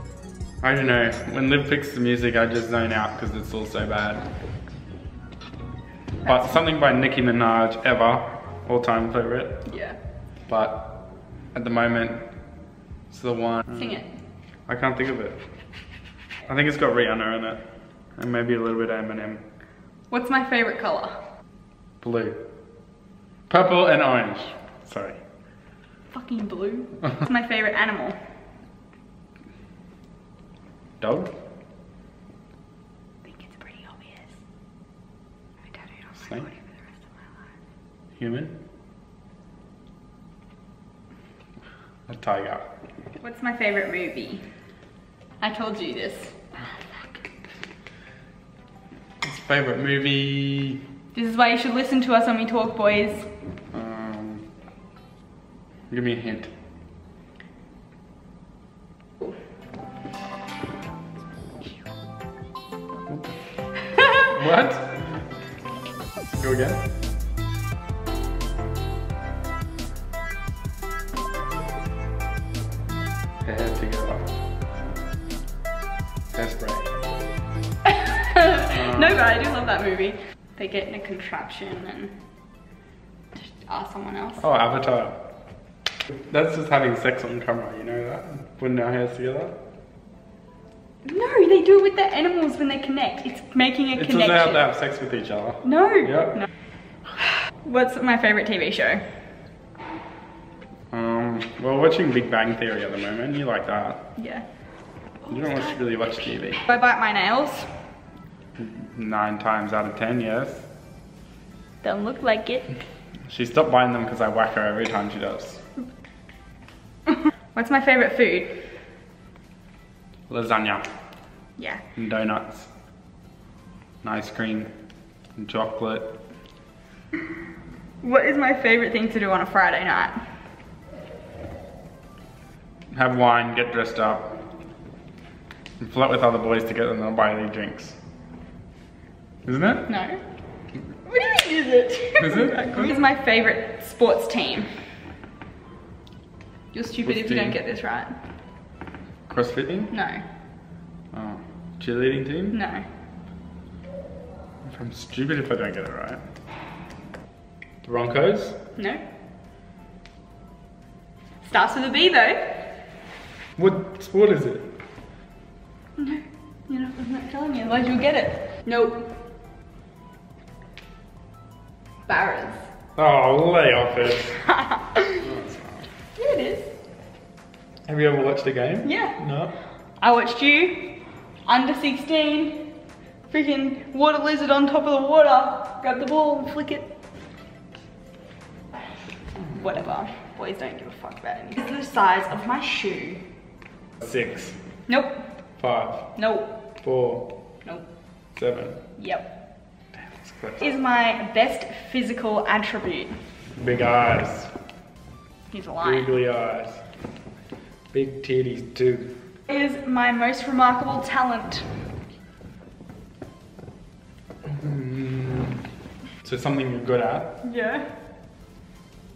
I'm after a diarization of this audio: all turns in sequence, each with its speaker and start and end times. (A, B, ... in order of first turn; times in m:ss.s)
0:00.6-0:04.3 A
0:06.2-0:09.7 A
0:09.7-0:10.0 B
0:10.5-0:11.0 A
0:11.5-0:12.2 A
0:13.1-0:13.9 A
0:13.7-0:14.1 B
0:14.7-0:15.4 A
0:16.5-0:17.6 A
0:18.2-0:19.4 A
0:20.1-0:21.2 B
0:22.0-0:22.4 A
0:23.5-0:25.2 A
0:26.1-0:28.2 B
0:31.0-0:31.3 A
0:33.2-0:34.4 B
0:35.7-0:36.8 B
0:36.2-0:36.5 A
0:38.2-0:38.6 A
0:42.1-0:42.7 A
0:43.2-0:44.5 B
0:45.4-0:46.4 B
0:46.7-0:47.3 A
0:49.2-0:50.8 A
0:51.1-0:53.3 B
0:53.7-0:54.5 A
0:55.9-0:56.5 A
1:03.1-1:03.4 A
1:04.1-1:05.1 A
1:06.3-1:06.8 A
1:13.4-1:14.3 A
1:16.3-1:16.9 A
1:17.8-1:22.2 B
1:18.7-1:19.0 A
1:23.4-1:24.4 B
1:24.4-1:25.2 A
1:26.3-1:29.6 A
1:31.0-1:34.7 B
1:34.0-1:36.4 A
1:35.6-1:36.4 B
1:37.6-1:39.0 B
1:40.9-1:44.1 A
1:44.2-1:44.4 B
1:45.3-1:46.6 A
1:46.7-1:47.7 B
1:48.6-1:50.7 A
1:51.8-1:52.7 B
1:53.3-1:55.6 A
1:57.1-1:58.8 B
2:00.3-2:00.9 A
2:01.6-2:01.8 B
2:02.0-2:02.7 A
2:04.0-2:04.7 A
2:05.4-2:06.2 A
2:08.0-2:10.2 B
2:12.9-2:14.4 A
2:15.8-2:18.0 A
2:19.4-2:19.9 A
2:19.9-2:20.2 B
2:21.0-2:24.7 B
2:22.2-2:23.0 A
2:26.7-2:28.2 B
2:27.0-2:27.6 A
2:29.3-2:29.9 A
2:29.9-2:30.2 B
2:31.1-2:32.6 A
2:32.5-2:32.9 B
2:34.6-2:36.2 A
2:37.8-2:38.6 A
2:38.8-2:39.0 B
2:41.4-2:42.7 B
2:43.6-2:44.7 A
2:46.0-2:49.1 B
2:52.1-2:52.6 B
2:53.0-2:54.4 A
2:54.4-2:55.3 B
2:55.2-2:55.8 A
2:56.2-2:56.7 B
2:57.9-2:59.5 A
2:58.8-2:59.2 B
3:00.0-3:02.8 B
3:03.3-3:06.9 B
3:09.4-3:13.2 B
3:14.0-3:14.6 A
3:14.9-3:15.3 B
3:15.6-3:16.1 A
3:16.2-3:16.6 B
3:16.8-3:17.4 A
3:18.4-3:18.8 A
3:19.0-3:19.4 B
3:19.9-3:20.7 A
3:20.6-3:23.1 B
3:23.6-3:24.5 A
3:25.5-3:26.1 B
3:25.8-3:26.8 A
3:27.9-3:29.2 A
3:29.5-3:31.7 B
3:34.4-3:35.6 A
3:36.2-3:37.4 A
3:37.4-3:37.9 B